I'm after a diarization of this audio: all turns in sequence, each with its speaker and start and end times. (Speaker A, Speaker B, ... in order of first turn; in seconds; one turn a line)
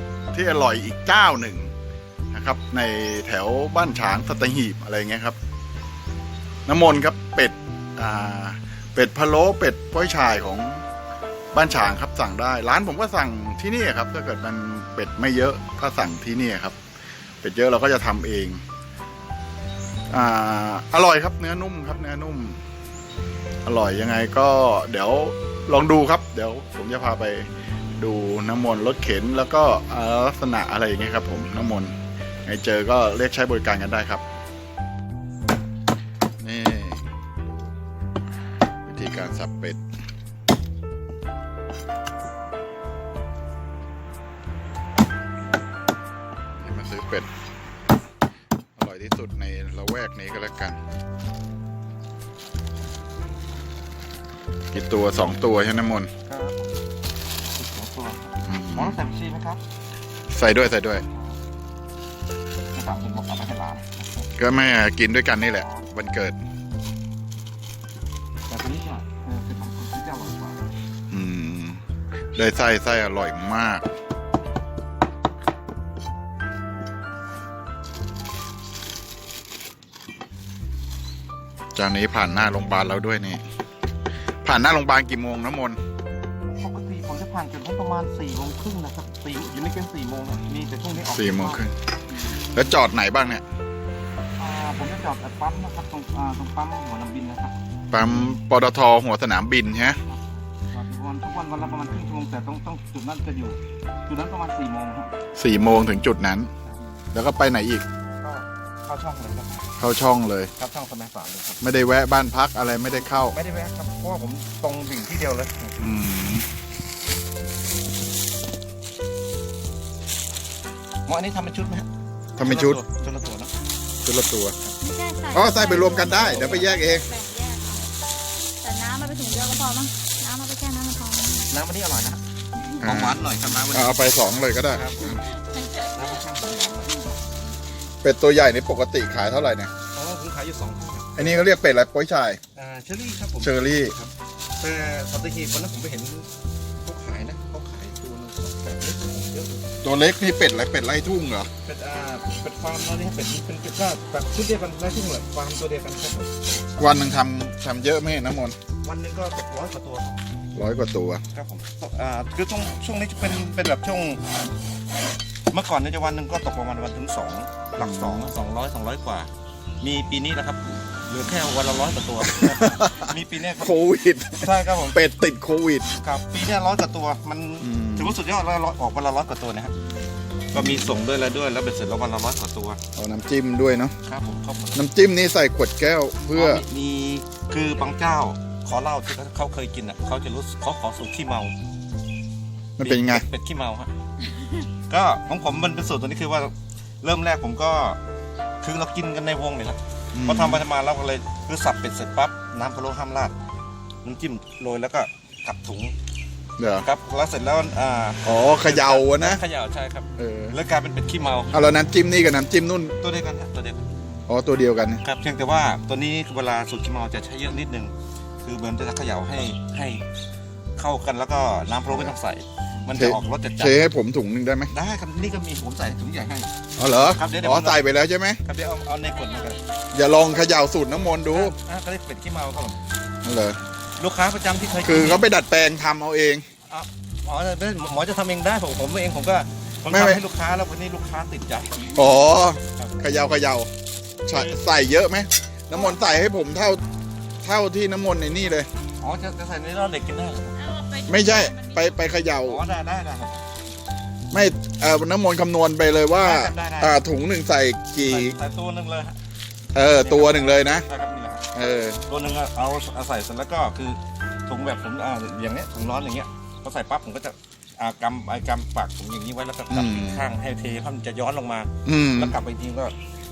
Speaker A: 0.3-1.7
Speaker A: 2.3-5.4
Speaker A: 6.7-10.8
Speaker A: 11.5-16.8
Speaker A: 17.4-18.6
Speaker A: 20.1-22.6
Speaker A: 23.6-34.2
Speaker A: 36.4-37.1
Speaker A: 38.8-39.8
Speaker A: 46.6-47.3
Speaker A: 48.8-50.8
Speaker A: 54.7-56.1
Speaker B: 56.2-56.7
Speaker B: 57.5-59.6
Speaker A: 58.4-59.0
Speaker A: 60.3-61.0
Speaker B: 62.7-64.1
Speaker A: 64.4-66.3
Speaker B: 65.5-65.8
Speaker B: 68.5-70.6
Speaker A: 71.1-71.8
Speaker A: 72.3-73.9
Speaker A: 81.7-83.4
Speaker A: 84.4-85.8
Speaker B: 86.4-91.6
Speaker A: 91.1-91.7
Speaker A: 92.3-93.4
Speaker B: 94.4-97.5
Speaker A: 97.9-100.0
Speaker B: 100.1-105.1
Speaker A: 105.3-106.5
Speaker A: 107.1-107.8
Speaker B: 108.2-109.7
Speaker A: 109.8-110.5
Speaker B: 110.6-111.6
Speaker A: 111.6-113.3
Speaker B: 113.2-115.9
Speaker A: 115.8-116.5
Speaker B: 121.0-123.5
Speaker A: 122.4-122.8
Speaker A: 124.0-124.5
Speaker C: 124.8-127.9
Speaker A: 125.3-127.1
Speaker B: 125.8-126.7
Speaker C: 128.6-131.5
Speaker B: 131.5-132.2
Speaker B: 132.7-134.0
Speaker A: 132.8-135.2
Speaker B: 134.7-137.1
Speaker A: 138.0-139.7
Speaker B: 139.9-141.4
Speaker A: 141.1-142.4
Speaker B: 142.5-146.3
Speaker A: 143.4-143.9
Speaker B: 146.8-149.6
Speaker A: 149.8-151.5
Speaker B: 151.6-156.3
Speaker A: 156.8-158.6
Speaker B: 158.8-160.2
Speaker A: 160.5-161.2
Speaker B: 161.3-164.2
Speaker B: 165.5-169.3
Speaker A: 167.8-168.3
Speaker B: 169.8-173.7
Speaker A: 172.2-175.9
Speaker B: 174.4-175.0
Speaker B: 175.9-179.7
Speaker A: 177.6-178.2
Speaker B: 180.5-182.8
Speaker A: 180.5-181.0
Speaker A: 182.9-183.9
Speaker B: 184.0-184.8
Speaker A: 184.7-186.6
Speaker B: 186.3-191.5
Speaker A: 192.8-193.2
Speaker B: 192.8-193.9
Speaker B: 194.9-198.0
Speaker B: 198.6-203.3
Speaker A: 200.1-200.6
Speaker B: 204.0-205.9
Speaker A: 206.6-206.8
Speaker B: 206.8-211.6
Speaker A: 208.2-209.4
Speaker A: 210.2-210.5
Speaker A: 211.5-212.9
Speaker B: 213.0-213.9
Speaker A: 214.3-215.0
Speaker B: 215.0-220.0
Speaker B: 220.8-223.8
Speaker A: 222.9-224.7
Speaker B: 224.7-226.5
Speaker A: 226.8-228.4
Speaker B: 227.0-227.8
Speaker B: 228.4-229.6
Speaker C: 229.4-229.7
Speaker A: 229.9-231.5
Speaker B: 231.3-232.8
Speaker A: 233.2-233.6
Speaker B: 234.0-235.2
Speaker A: 234.8-236.4
Speaker B: 236.7-241.9
Speaker A: 239.9-240.2
Speaker A: 241.9-243.7
Speaker A: 244.2-246.8
Speaker B: 244.3-244.6
Speaker A: 247.4-248.7
Speaker B: 249.0-250.7
Speaker C: 250.6-251.9
Speaker A: 251.1-252.6
Speaker B: 252.4-253.4
Speaker A: 254.3-258.4
Speaker B: 256.2-257.0
Speaker B: 258.0-259.2
Speaker A: 259.7-260.9
Speaker B: 260.0-261.4
Speaker A: 261.5-262.0
Speaker B: 262.1-272.9
Speaker A: 269.7-270.2
Speaker A: 271.8-272.4